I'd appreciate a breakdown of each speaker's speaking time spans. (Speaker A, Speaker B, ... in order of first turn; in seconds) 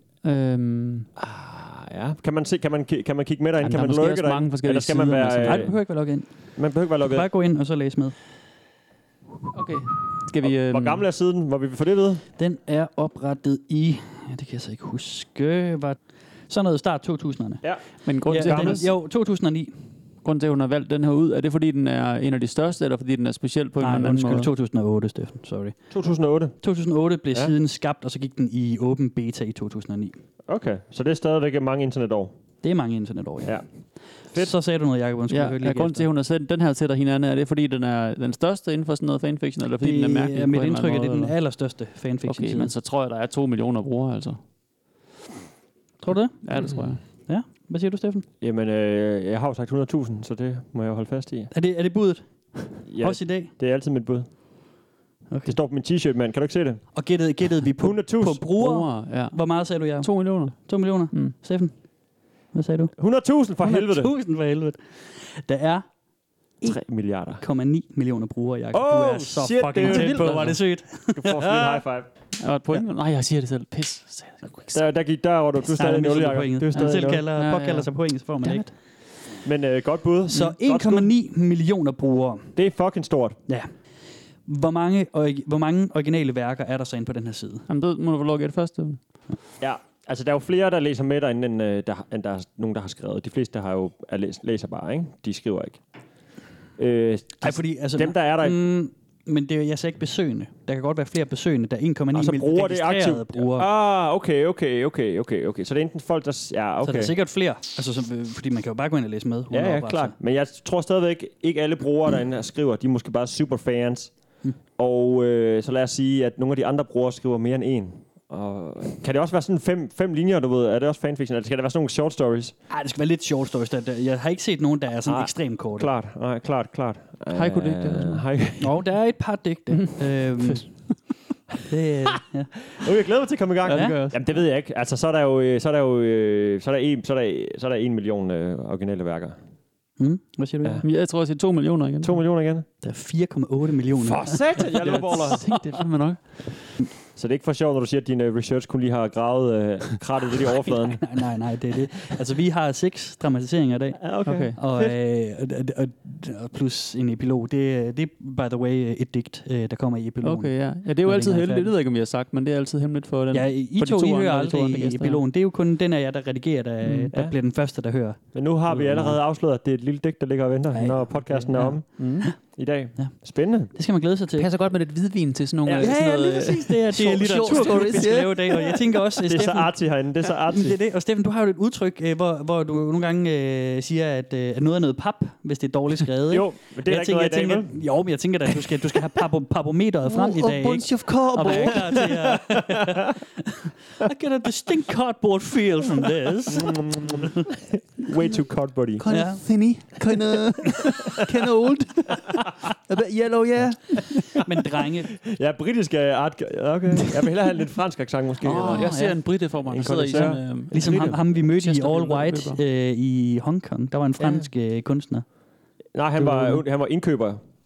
Speaker A: 0.2-1.1, 3.6-5.7, 9.5-11.0, 18.0-18.9, 20.2-24.5, 35.3-41.5, 42.2-44.4, 46.4-47.0, 58.5-61.3, 69.8-70.6, 72.4-74.8, 76.8-78.7, 87.7-89.0, 127.3-128.2, 129.8-131.1, 133.7-134.2, 140.8-142.2, 144.8-146.7, 154.2-154.6, 160.2-165.2, 166.8-167.1, 172.0-172.3, 174.4-178.8, 190.1-192.1, 199.0-204.4, 208.4-212.6
Speaker B: 1.2-6.0, 6.5-7.3, 10.4-12.2, 17.6-18.9, 25.9-26.6, 30.5-32.3, 33.4-34.5, 48.4-51.5, 52.9-54.3, 55.5-57.1, 57.7-58.4, 63.0-64.1, 66.7-67.4, 68.7-70.6, 71.1-72.1, 74.7-77.2, 79.4-81.1, 82.5-83.4, 89.6-95.8, 96.8-98.6, 102.1-107.2, 109.5-114.1, 114.8-122.5, 125.0-128.8, 132.7-139.4, 142.0-142.7, 143.9-145.4, 147.2-151.0, 154.0-154.9, 167.1-167.4, 168.3-173.7, 175.6-175.9, 177.4-178.0, 179.3-180.8, 186.3-187.8, 191.5-192.6, 196.5-199.0, 205.2-211.2, 214.2-214.5, 215.9-217.4
Speaker C: 5.4-8.2, 12.4-19.7, 23.8-26.0, 26.6-30.2, 32.6-36.1, 39.8-42.7, 46.0-48.2, 51.5-53.5, 55.3-55.6, 56.9-61.8, 62.5-63.0, 63.6-65.9, 67.4-71.8, 75.7-78.7, 80.3-82.5, 84.5-87.6, 97.4-103.7, 106.8-110.1, 122.7-125.9, 128.6-130.9, 131.7-132.5, 133.7-134.0, 140.0-140.8, 142.8-144.7, 150.9-161.7, 163.3-169.1, 170.7-172.4, 173.7-174.5, 175.8-193.1, 194.0-197.2, 199.1-199.6, 204.4-205.1, 208.4-209.2, 209.9-215.2, 216.2-216.6